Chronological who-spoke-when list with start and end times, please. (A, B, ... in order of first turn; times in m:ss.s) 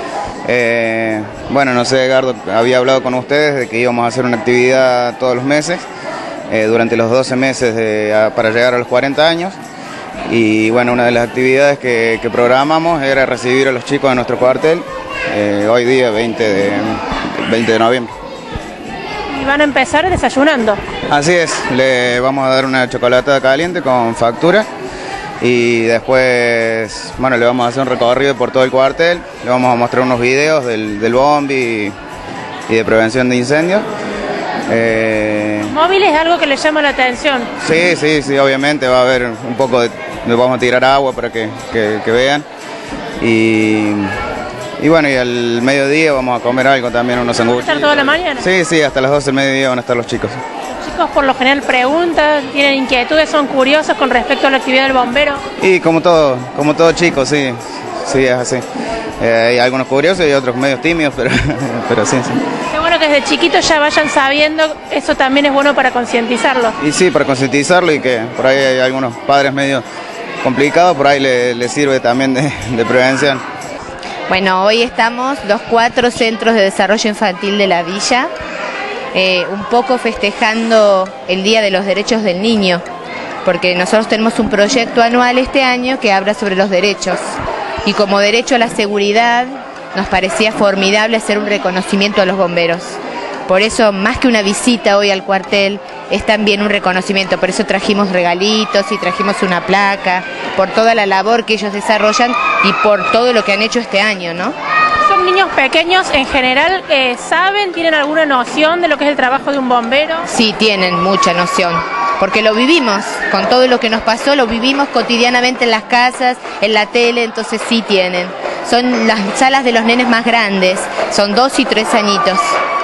0:00.4-0:05.8 A
0:06.5-0:09.6 A
0:10.3-0:18.1 A
0:19.3-0:20.8 B
0:21.1-0:24.7 A
0:25.4-0:31.9 A
0:32.7-0:33.9 A
0:34.7-0:35.7 A
0:35.6-0:37.5 B
0:37.6-0:42.4 A
0:43.2-0:44.1 A
0:44.8-0:50.4 A
0:47.5-0:48.5 B
0:50.7-0:55.4 B
0:55.6-0:58.6 A
0:59.2-1:02.4 A
1:02.7-1:06.8 B
1:06.8-1:09.8 A
1:10.4-1:13.4 A
1:14.3-1:18.3 C
1:19.1-1:22.8 C
1:23.4-1:27.2 C
1:27.8-1:44.5 C
1:45.0-1:50.3 B
1:50.3-2:02.5 C